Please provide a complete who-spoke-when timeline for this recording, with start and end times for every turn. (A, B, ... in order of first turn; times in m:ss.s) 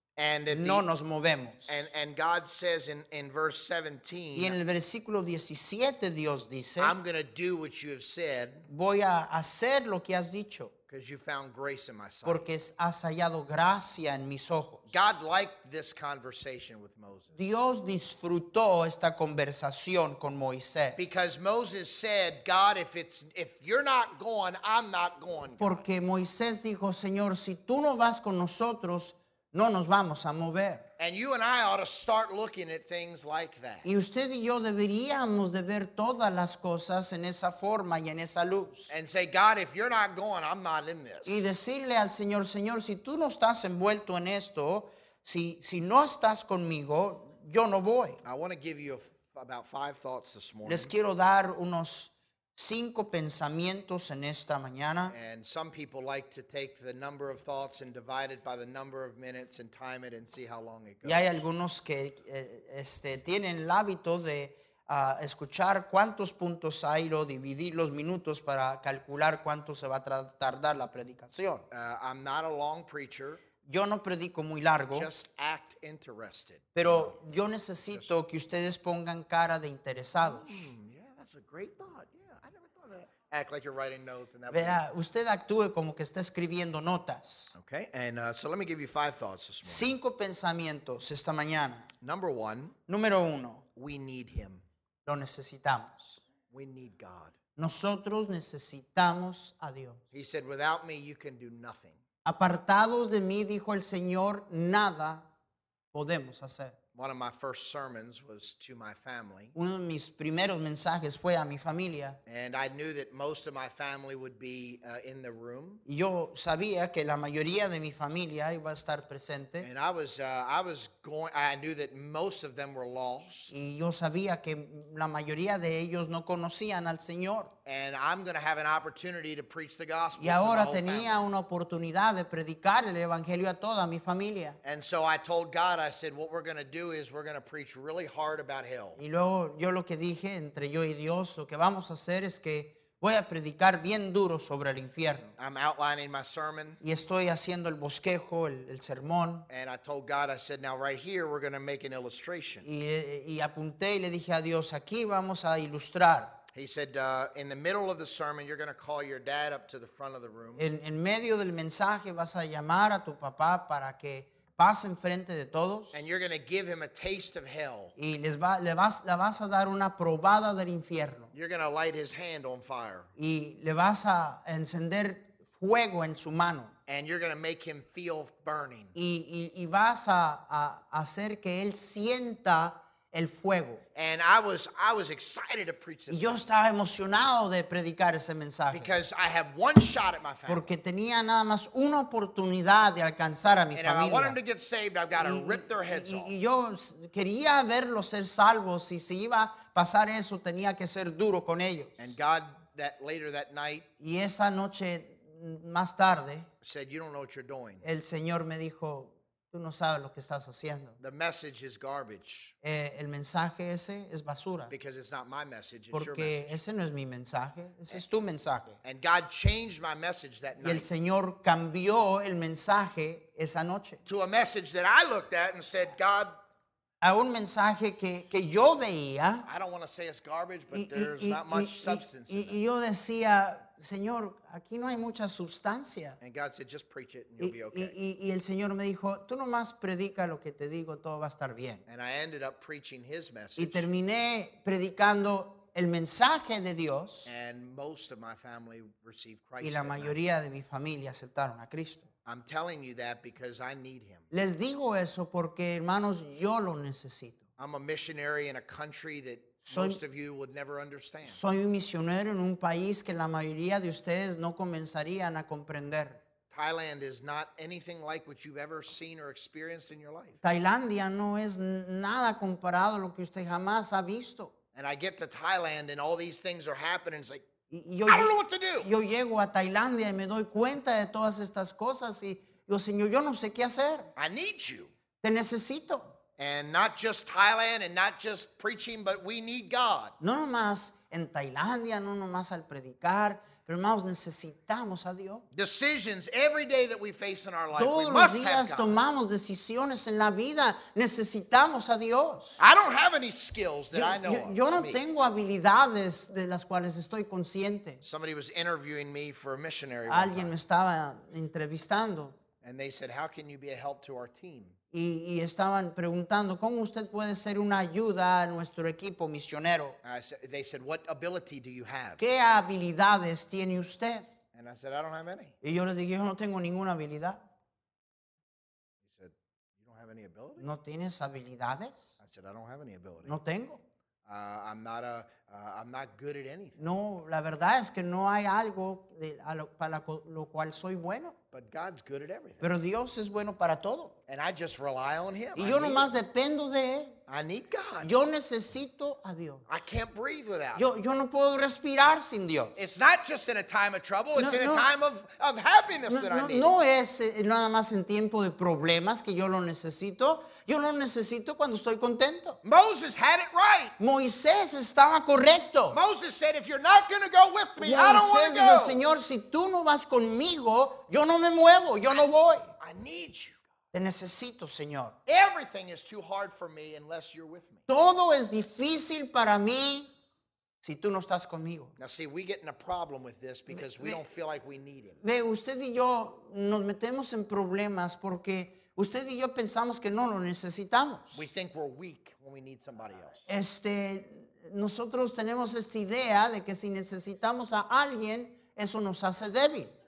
0:00.2-0:00.8 A
0:00.5-0:01.8 B
0:01.7-0:04.6 A
0:04.3-0:07.0 B
0:06.8-0:08.7 A
0:08.7-0:10.7 B
0:10.9-0:12.5 A
0:12.2-0:14.9 B
0:14.9-0:17.3 A
0:17.3-0:21.2 B
0:21.0-0:25.8 A
0:25.6-0:30.9 B
0:31.0-0:33.9 A
0:33.8-0:38.9 B
0:38.9-0:41.4 A
0:41.2-0:48.2 B
0:48.2-0:50.9 A
0:50.6-0:55.2 B
0:55.1-1:01.4 A
1:01.0-1:11.6 B
1:11.7-1:13.4 A
1:13.6-1:15.1 B
1:14.9-1:17.2 A
1:16.8-1:20.7 B
1:20.2-1:24.8 A
1:24.5-1:27.5 B
1:27.5-1:30.0 A
1:29.6-1:31.9 B
1:32.0-1:32.8 A
1:32.9-1:33.6 B
1:33.8-1:34.6 A
1:35.0-1:36.2 B
1:36.5-1:37.4 A
1:37.6-1:40.0 B
1:40.1-1:42.0 A
1:42.2-1:45.3 B
1:45.9-1:46.8 B
1:46.9-1:49.5 A
1:49.5-1:52.2 B
1:52.2-1:55.8 A
1:55.8-1:59.7 B
1:59.6-2:03.5 A
2:03.5-2:07.5 B
2:07.6-2:11.2 A
2:10.2-2:14.6 B
2:14.6-2:19.0 A
2:19.0-2:25.3 B
2:25.4-2:26.8 A
2:26.8-2:29.5 B
2:29.5-2:32.7 A
2:32.6-2:36.4 B
2:36.5-2:40.6 A
2:40.6-2:46.0 B
2:45.9-2:47.9 A
2:48.0-2:51.3 B
2:51.3-2:53.1 A
2:53.2-2:56.7 B
2:56.9-2:58.9 A
2:58.9-3:03.8 B
3:03.9-3:06.4 A
3:06.1-3:09.0 B
3:08.7-3:10.7 A
3:10.5-3:14.4 B
3:13.7-3:16.3 A
3:15.2-3:22.0 B
3:22.0-3:23.9 A
3:24.0-3:26.5 B
3:26.6-3:27.8 A
3:27.8-3:31.0 B
3:31.0-3:32.5 A
3:32.6-3:34.7 B
3:34.7-3:36.6 A
3:35.9-3:38.8 B
3:38.8-3:40.9 A
3:40.6-3:44.0 B
3:44.0-3:46.4 A
3:47.0-3:49.5 B
3:49.4-3:52.6 A
3:50.7-3:56.2 B
3:56.2-3:57.9 A
3:57.4-4:01.8 B
4:01.9-4:03.9 A
4:03.6-4:07.3 B
4:07.2-4:10.2 A
4:09.6-4:12.1 B
4:12.2-4:14.3 A
4:14.3-4:17.4 B
4:17.6-4:21.4 A
4:19.7-4:20.0 B
4:21.2-4:26.2 B
4:26.5-4:30.4 A
4:30.4-4:34.5 B
4:34.7-4:37.4 A
4:37.7-4:44.1 B
4:38.1-4:38.9 A
4:44.2-4:44.9 A
4:45.2-4:46.2 B
4:46.4-4:50.2 A
4:50.2-4:55.4 B
4:55.5-4:59.0 A
4:57.8-5:02.6 B
5:02.6-5:05.0 A
5:03.9-5:08.0 B
5:08.0-5:10.5 A
5:10.1-5:12.4 B
5:12.6-5:14.8 A
5:14.9-5:20.0 B
5:20.0-5:22.2 A
5:22.2-5:24.3 B
5:24.5-5:25.6 A
5:25.6-5:27.4 B
5:29.0-5:30.7 A
5:30.6-5:32.2 B
5:32.2-5:33.3 A
5:33.2-5:33.8 B
5:34.2-5:36.9 A
5:36.8-5:41.4 B
5:41.5-5:42.7 A
5:42.6-5:44.2 B
5:44.3-5:46.1 A
5:45.6-5:47.2 B
5:47.3-5:48.1 A
5:48.0-5:49.7 B
5:49.7-5:50.9 A
5:50.7-5:52.7 B
5:52.8-5:56.7 A
5:54.4-5:54.9 B
5:56.1-6:02.6 B
6:02.6-6:04.0 A
6:04.0-6:06.0 B
6:05.9-6:09.0 A
6:07.8-6:12.7 B
6:12.8-6:13.6 A
6:13.9-6:15.2 B
6:15.2-6:17.8 A
6:17.9-6:20.1 B
6:20.8-6:21.9 B
6:22.0-6:25.2 A
6:23.7-6:24.2 B
6:25.2-6:31.4 B
6:31.3-6:33.5 A
6:33.5-6:39.9 B